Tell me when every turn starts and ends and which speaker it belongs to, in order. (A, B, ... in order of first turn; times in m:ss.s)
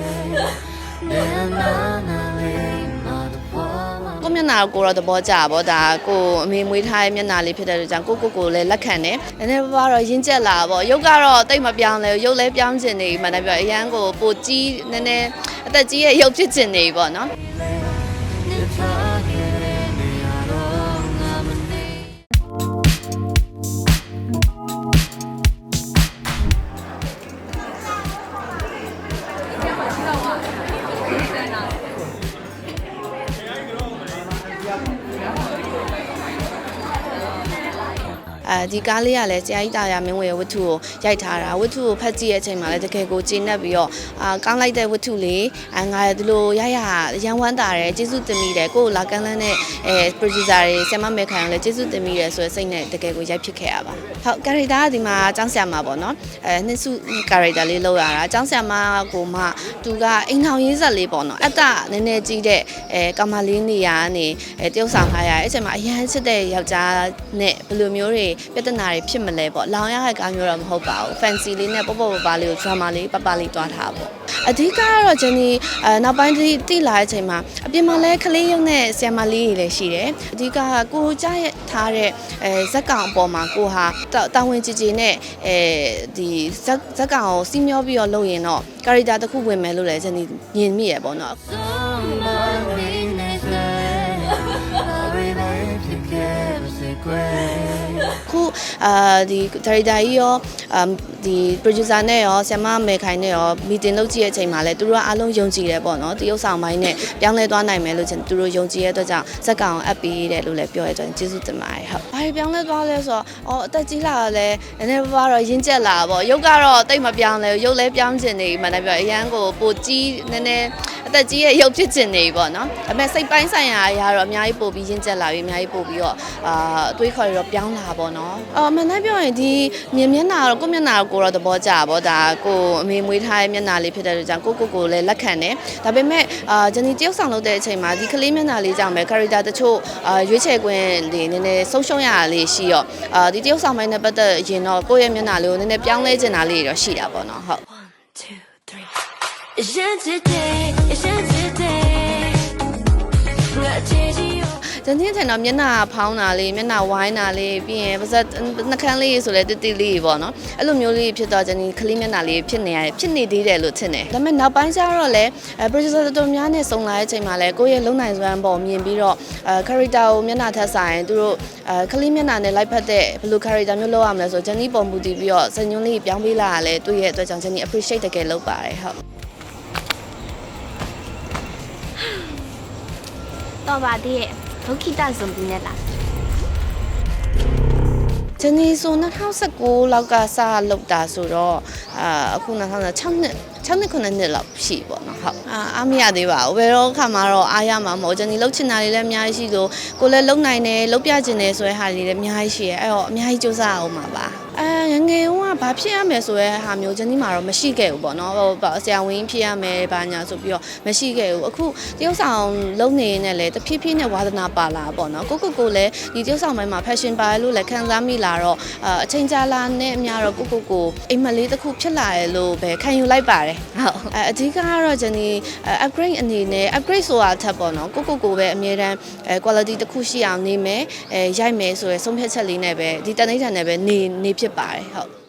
0:00.3-0:04.2 A
0:04.2-0:17.3 B
0:18.4-0:22.2 A
0:38.4-1:31.4 B
1:31.4-1:38.2 A
1:38.2-2:27.6 B
2:28.0-2:28.9 A
2:29.6-2:32.6 A
2:33.5-2:34.6 A
2:34.6-2:59.0 B
3:03.6-3:05.8 C
3:08.4-3:55.1 B